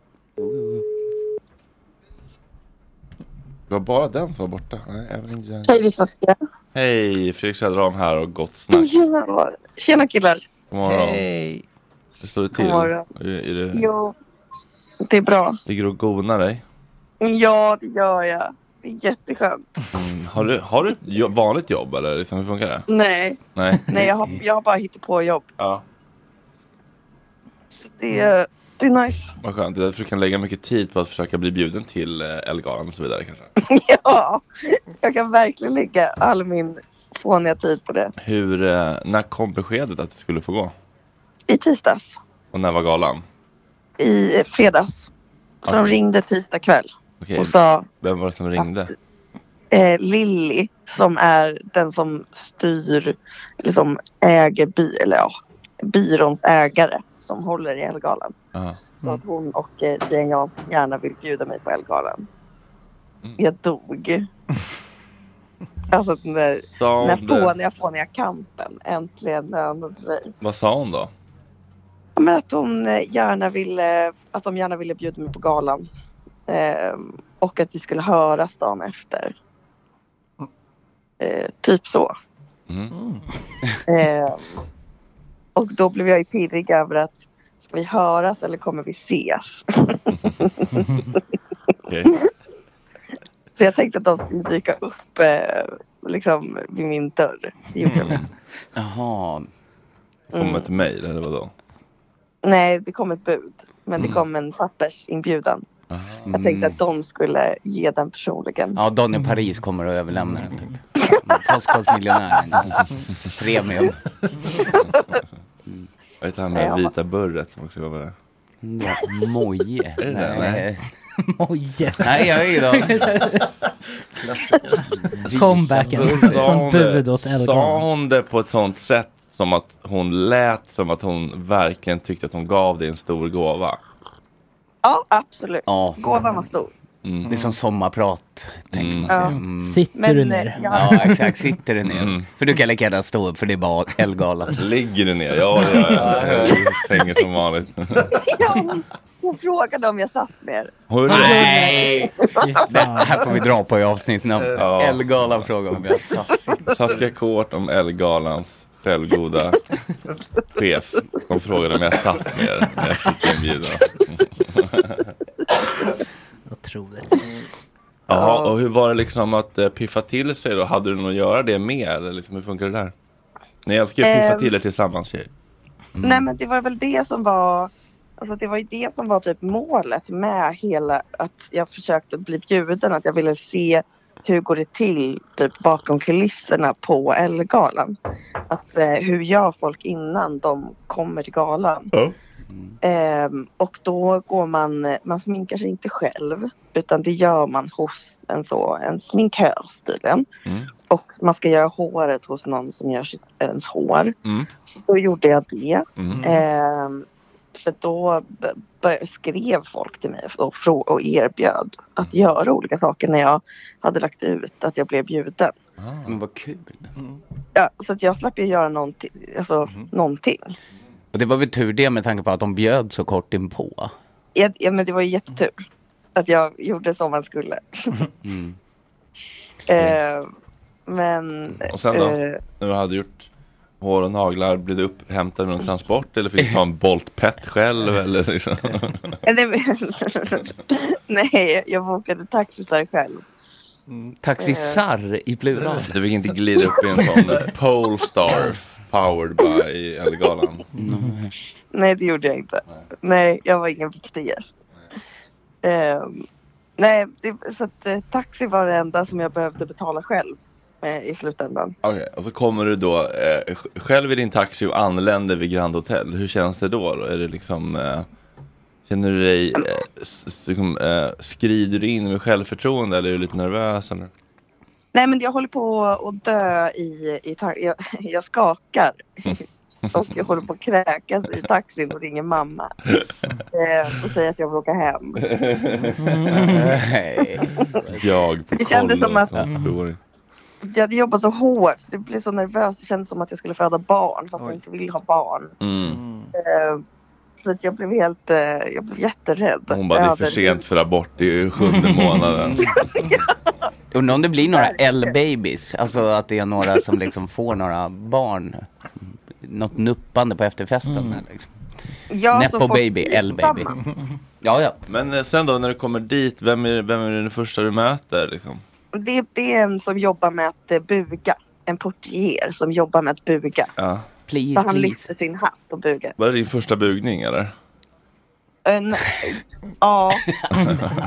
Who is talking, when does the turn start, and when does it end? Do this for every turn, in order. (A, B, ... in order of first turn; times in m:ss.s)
0:00.4-0:00.8 A
0:03.7-0:05.8 B
0:05.6-0:06.4 C
0:06.7-0:08.9 B
0:08.7-0:10.4 C
0:10.7-0:11.2 B
0:10.8-0:11.6 D
0:12.2-0:13.8 B
0:12.5-0:13.0 C
0:13.7-0:14.1 C
0:15.0-0:15.6 C
0:15.7-0:16.6 B
0:17.2-0:19.8 C
0:19.9-0:22.9 B
0:22.9-0:25.5 C
0:23.6-0:24.1 B
0:27.8-0:29.3 C
0:29.4-0:33.5 B
0:33.6-0:38.1 C
0:38.2-0:40.7 B
0:41.5-0:42.2 C
0:42.5-0:43.2 B
0:44.0-0:45.1 C
0:45.6-0:47.8 C
0:45.6-0:46.0 B
0:47.2-0:48.9 B
0:49.7-0:58.3 C
0:58.5-0:58.8 B
0:59.0-1:02.3 C
1:03.4-1:04.3 C
1:05.9-1:10.3 C
1:06.8-1:07.5 B
1:10.4-1:11.1 B
1:12.2-1:15.9 C
1:16.5-1:19.3 C
1:21.2-1:22.1 C
1:22.9-1:23.2 D
1:23.9-1:24.4 C
1:25.6-1:31.2 C
1:31.8-1:32.1 B
1:33.6-1:38.2 C
1:37.8-1:38.3 B
1:38.8-1:39.5 A
1:40.3-1:40.7 C
1:40.4-1:41.5 B
1:42.4-1:45.6 C
1:45.9-1:46.3 B
1:46.3-1:46.8 A
1:46.3-1:48.8 C
1:48.7-1:50.7 A
1:51.2-1:54.0 A
1:56.2-1:58.1 B
1:56.5-1:56.9 C
1:58.6-2:00.8 A
2:00.0-2:00.6 B
2:01.2-2:03.5 E
2:02.0-2:03.1 A
2:05.1-2:06.4 A
2:05.3-2:07.8 E
2:05.8-2:13.8 B
2:14.8-2:16.7 C
2:15.7-2:16.0 A
2:17.0-2:17.3 B
2:17.2-2:17.5 D
2:17.2-2:19.8 A
2:18.7-2:19.2 B
2:19.1-2:19.4 C
2:19.6-2:21.1 E
2:19.9-2:21.2 C
2:20.7-2:24.6 A
2:21.8-2:22.2 B
2:24.5-2:28.2 B
2:25.8-2:26.8 A
2:28.1-2:30.7 C
2:30.9-2:31.8 B
2:31.0-2:36.4 A
2:31.1-2:31.6 E
2:32.4-2:33.2 E
2:34.5-2:35.5 B
2:36.7-2:39.6 B
2:40.5-2:45.1 B
2:46.5-2:47.2 E
2:48.1-2:52.9 B
2:48.1-2:48.5 C
2:53.6-2:55.3 B
2:54.0-2:54.5 C
2:56.0-2:56.2 A
2:56.0-3:08.0 C
3:08.5-3:11.9 C
3:12.8-3:20.2 C
3:20.4-3:20.7 B
3:20.9-3:24.1 C
3:24.6-3:35.5 C
3:26.0-3:26.2 B
3:35.8-3:36.1 B
3:36.0-3:36.9 A
3:37.5-3:40.5 C
3:41.1-3:43.9 A
3:44.3-3:45.5 C
3:46.2-3:48.0 C
3:48.2-3:48.6 A
3:49.7-3:50.3 C
3:50.9-3:52.4 C
3:51.7-3:53.3 B
3:53.8-3:59.2 B
3:59.2-4:03.2 C
4:03.9-4:04.1 D
4:04.2-4:06.0 A
4:04.4-4:04.8 C
4:05.9-4:10.6 B
4:06.6-4:07.1 C
4:10.8-4:11.3 A
4:11.7-4:14.5 C
4:15.6-4:16.2 C
4:16.8-4:21.7 C
4:21.8-4:28.1 B
4:28.9-4:34.1 B
4:34.9-4:42.8 C
4:43.5-4:45.2 C
4:45.3-4:46.5 B
4:46.0-4:46.7 E
4:46.4-4:48.0 A
4:48.0-4:50.0 B
4:48.5-4:49.4 C
4:50.6-4:55.5 C
4:55.6-4:56.0 B
4:55.8-4:56.3 D
4:56.4-4:56.8 C
4:57.4-5:00.6 C
4:59.7-5:02.9 B
5:02.8-5:03.2 C
5:03.9-5:11.5 A
5:04.4-5:05.1 C
5:10.9-5:11.2 E
5:12.1-5:13.9 C
5:12.3-5:13.7 A
5:14.4-5:14.8 A
5:14.9-5:18.6 B
5:18.9-5:23.7 C
5:23.8-5:24.0 B
5:24.3-5:25.0 A
5:24.5-5:26.1 C
5:26.2-5:27.5 B
5:28.6-5:30.8 C
5:30.4-5:30.6 A